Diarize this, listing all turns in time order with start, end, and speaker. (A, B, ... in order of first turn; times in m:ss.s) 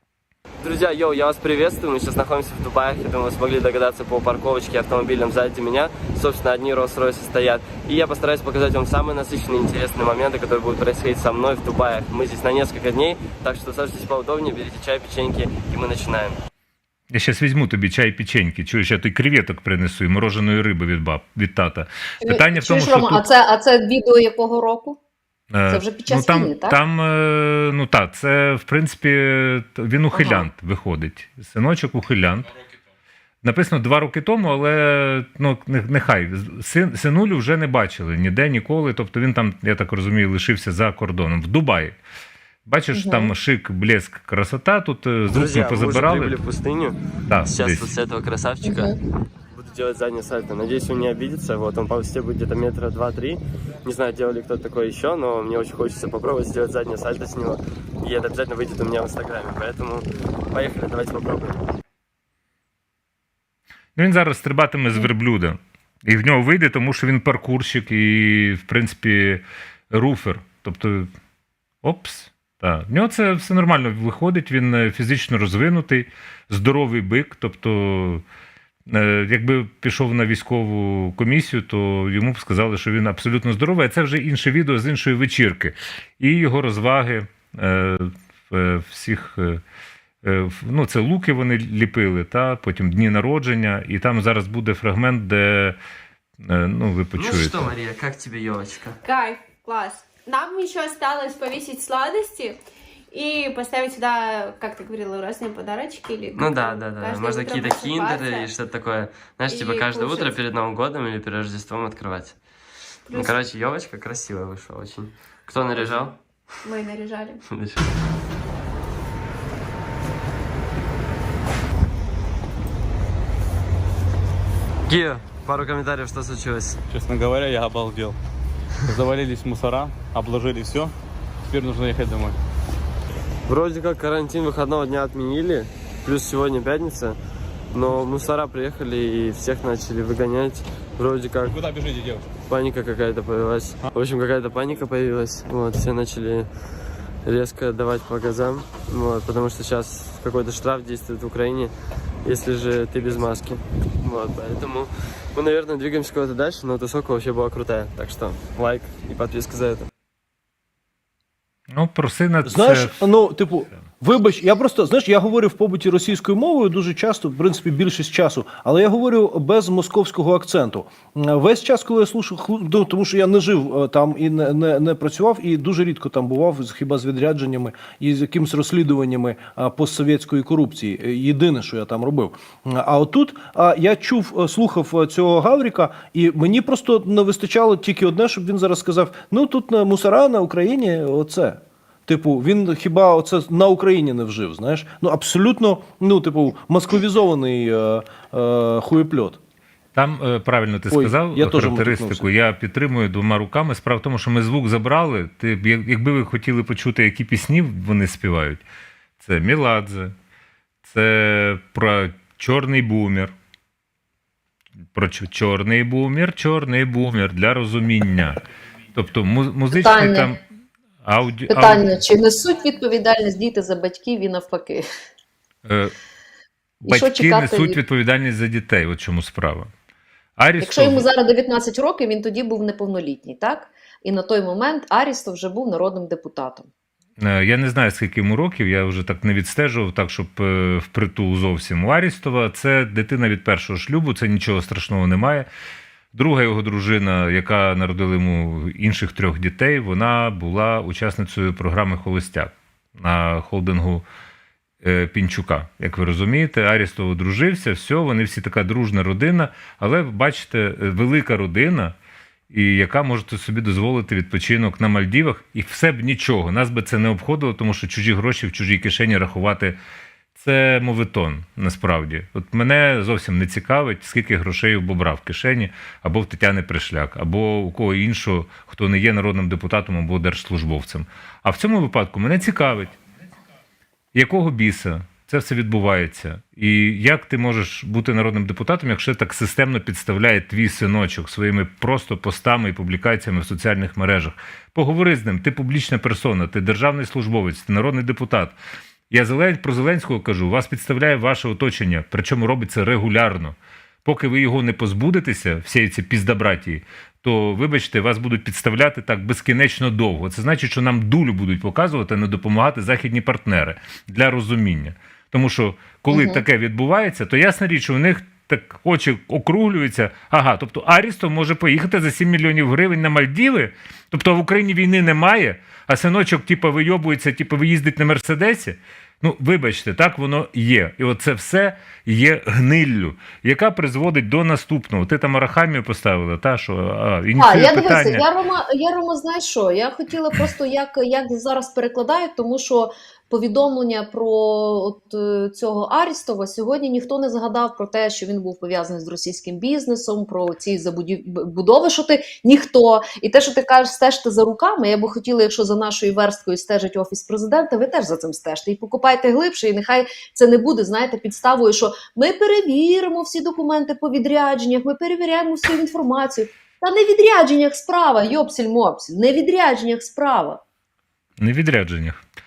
0:00.6-0:16.4 A
0:17.1-0:23.2 B
0:22.2-0:25.0 C
0:25.5-0:32.5 B
0:25.7-0:26.8 C
0:30.1-0:30.4 C
0:33.4-0:41.9 B
0:42.6-0:46.4 B
0:42.9-0:43.3 C
0:45.3-0:48.9 A
0:47.3-0:47.9 B
0:48.6-0:48.9 C
0:49.5-1:01.6 A
1:04.0-1:11.1 B
1:11.8-1:18.2 B
1:18.9-1:29.6 B
1:30.2-1:35.8 B
1:36.4-1:37.7 B
1:37.2-1:39.0 A
1:39.0-1:42.6 D
1:43.1-1:48.5 D
1:46.4-1:52.4 A
1:49.5-1:50.4 D
1:53.1-1:53.4 D
1:53.1-1:56.2 A
1:55.7-1:56.1 D
1:56.6-1:57.4 D
1:57.5-1:57.9 A
2:04.9-2:06.8 A
2:06.9-2:08.1 E
2:09.0-2:10.9 E
2:11.5-2:12.4 E
2:13.4-2:17.2 A
2:17.7-2:21.6 A
2:21.6-2:22.2 E
2:22.5-2:26.5 A
2:27.2-2:31.7 A
2:32.2-2:39.9 A
2:41.7-2:43.1 B
2:42.4-3:19.4 F
3:19.9-3:28.6 B
3:20.9-3:22.3 F
3:29.2-3:30.1 B
3:30.8-3:33.3 B
3:34.9-3:38.4 B
3:38.9-3:40.4 B
3:39.7-3:40.3 C
3:41.0-3:41.9 B
3:41.5-3:44.8 C
3:45.6-3:45.9 B
3:46.8-3:49.7 B
3:46.8-3:47.8 C
3:50.4-3:51.0 B
3:50.6-3:56.7 C
3:57.2-4:05.5 B
4:06.1-4:14.0 B
4:14.8-4:21.9 B
4:22.5-4:29.8 B
4:30.3-4:43.0 B
4:44.1-4:58.6 B
4:59.1-5:38.2 B
5:16.1-5:16.4 C
5:37.4-6:10.6 C
6:11.4-6:12.2 B